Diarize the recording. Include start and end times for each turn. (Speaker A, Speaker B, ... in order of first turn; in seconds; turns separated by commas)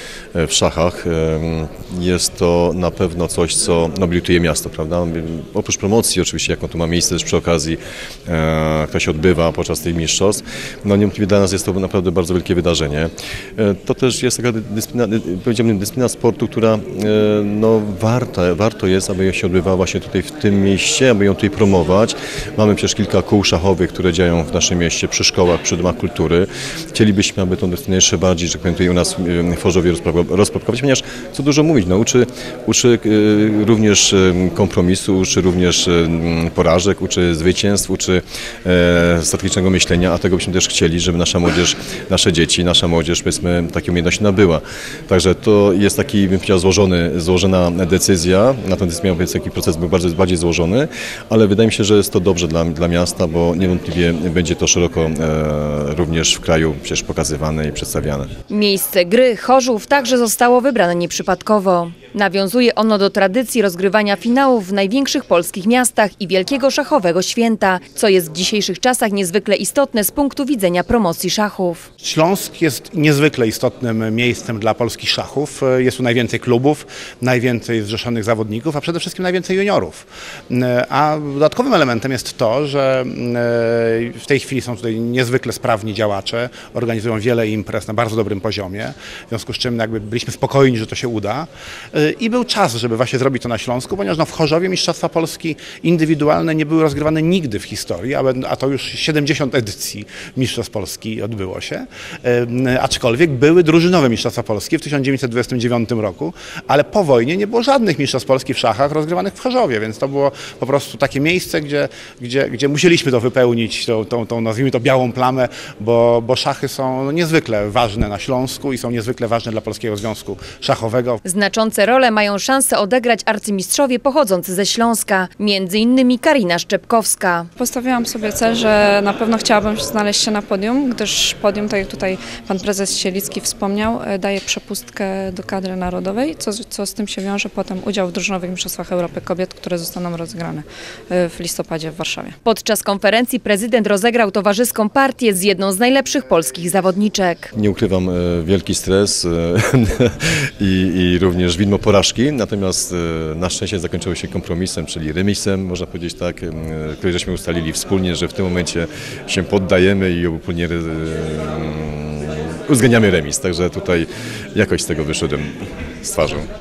Speaker A: 0.3-58.3, Speaker B: 58.5-71.9, Speaker C: 72.0-121.2, Speaker B: 121.2-127.5, Speaker D: 127.6-142.3, Speaker B: 142.4-147.5, Speaker A: 147.5-166.5